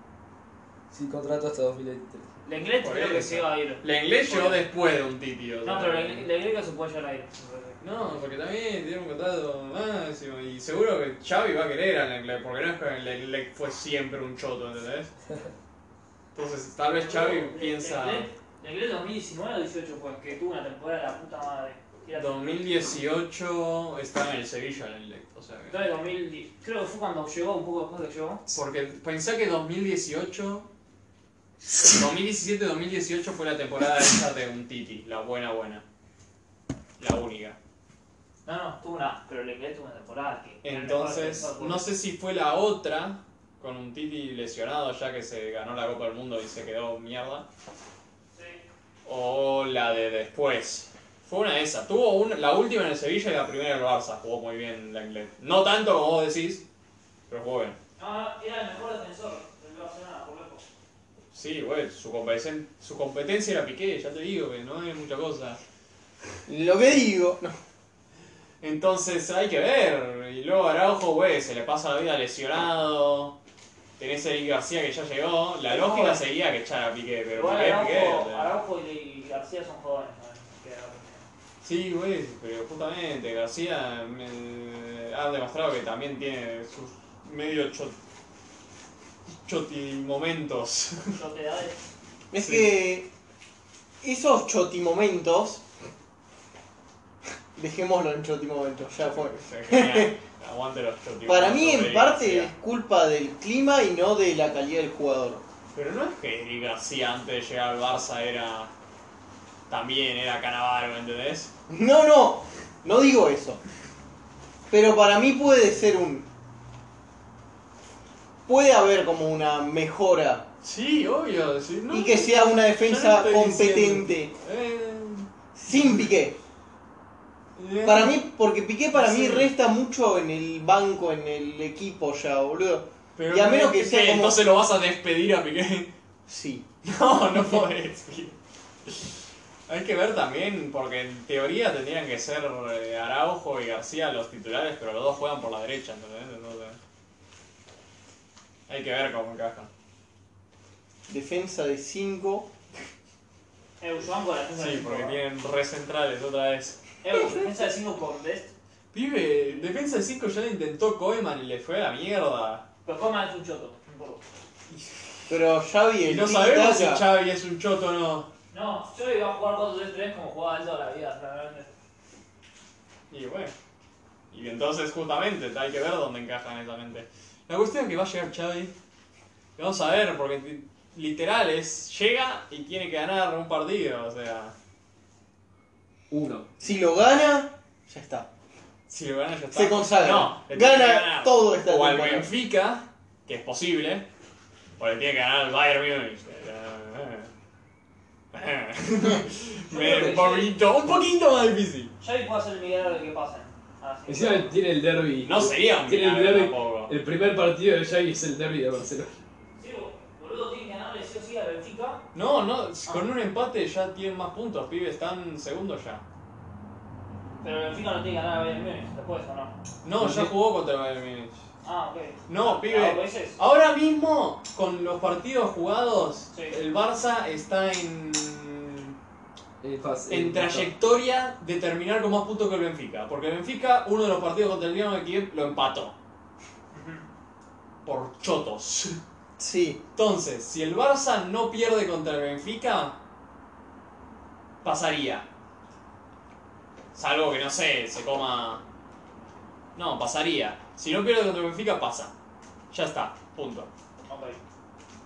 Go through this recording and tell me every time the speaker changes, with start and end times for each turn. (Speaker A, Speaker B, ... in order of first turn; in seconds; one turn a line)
Speaker A: 0.9-2.3
Speaker B: 2.4-4.6
Speaker C: 2.8-6.2
Speaker B: 5.6-7.8
Speaker C: 7.8-15.1
Speaker C: 16.3-18.3
Speaker B: 17.0-22.6
Speaker C: 22.1-25.8
Speaker B: 25.7-28.4
Speaker C: 28.5-30.7
Speaker C: 31.8-35.8
Speaker C: 37.0-37.6
Speaker B: 38.4-41.9
Speaker C: 40.6-47.5
Speaker B: 48.3-48.6
Speaker C: 49.0-56.6
Speaker C: 57.3-57.8
Speaker B: 58.0-60.6
Speaker C: 61.3-65.6
Speaker D: 66.5-67.5
Speaker C: 68.6-73.4
Speaker C: 74.0-78.5
Speaker B: 75.7-76.2
Speaker B: 77.3-81.3
Speaker C: 81.6-88.0
Speaker C: 89.4-91.2
Speaker B: 91.1-91.8
Speaker D: 92.3-93.1
Speaker C: 92.4-92.7
Speaker D: 94.0-95.6
Speaker D: 97.5-100.2
Speaker C: 99.0-102.5
Speaker D: 101.2-105.4
Speaker C: 105.7-108.7
Speaker C: 109.7-111.5
Speaker D: 111.7-113.6
Speaker D: 114.7-116.2
Speaker D: 118.5-120.5
Speaker C: 120.6-126.1
Speaker D: 121.9-124.3
Speaker D: 125.5-126.3
Speaker C: 127.6-128.2
Speaker D: 127.8-134.4
Speaker B: 128.9-129.5
Speaker C: 133.2-135.9
Speaker D: 136.3-136.7
Speaker C: 136.8-146.8
Speaker C: 148.7-149.7
Speaker D: 151.1-152.5
Speaker B: 153.8-155.2
Speaker C: 154.5-157.2
Speaker B: 157.0-158.5
Speaker C: 158.9-162.7
Speaker B: 162.8-164.2
Speaker C: 164.7-165.3
Speaker D: 165.3-167.1
Speaker C: 166.0-168.3
Speaker B: 168.5-171.7
Speaker C: 173.1-173.5
Speaker C: 174.3-178.7
Speaker C: 179.6-184.5
Speaker A: 186.1-186.5
Speaker D: 186.6-188.3
Speaker C: 188.9-194.1
Speaker D: 189.5-192.3
Speaker C: 194.8-197.3
Speaker C: 198.3-201.9
Speaker B: 199.7-200.5
Speaker A: 199.7-200.2
Speaker B: 202.0-204.6
Speaker A: 204.1-209.2
Speaker C: 205.2-206.9
Speaker B: 209.6-212.1
Speaker C: 212.1-216.0
Speaker B: 217.4-219.5
Speaker C: 219.8-221.4
Speaker A: 220.0-220.3
Speaker B: 221.6-223.4
Speaker C: 222.3-228.9
Speaker B: 226.3-226.6
Speaker A: 229.6-230.7
Speaker C: 230.1-235.9
Speaker B: 236.7-237.0
Speaker C: 237.8-239.0
Speaker D: 239.4-239.8
Speaker C: 239.9-242.9
Speaker C: 244.6-245.2
Speaker C: 246.9-248.6
Speaker C: 249.7-252.1
Speaker C: 252.7-253.7
Speaker B: 254.1-254.4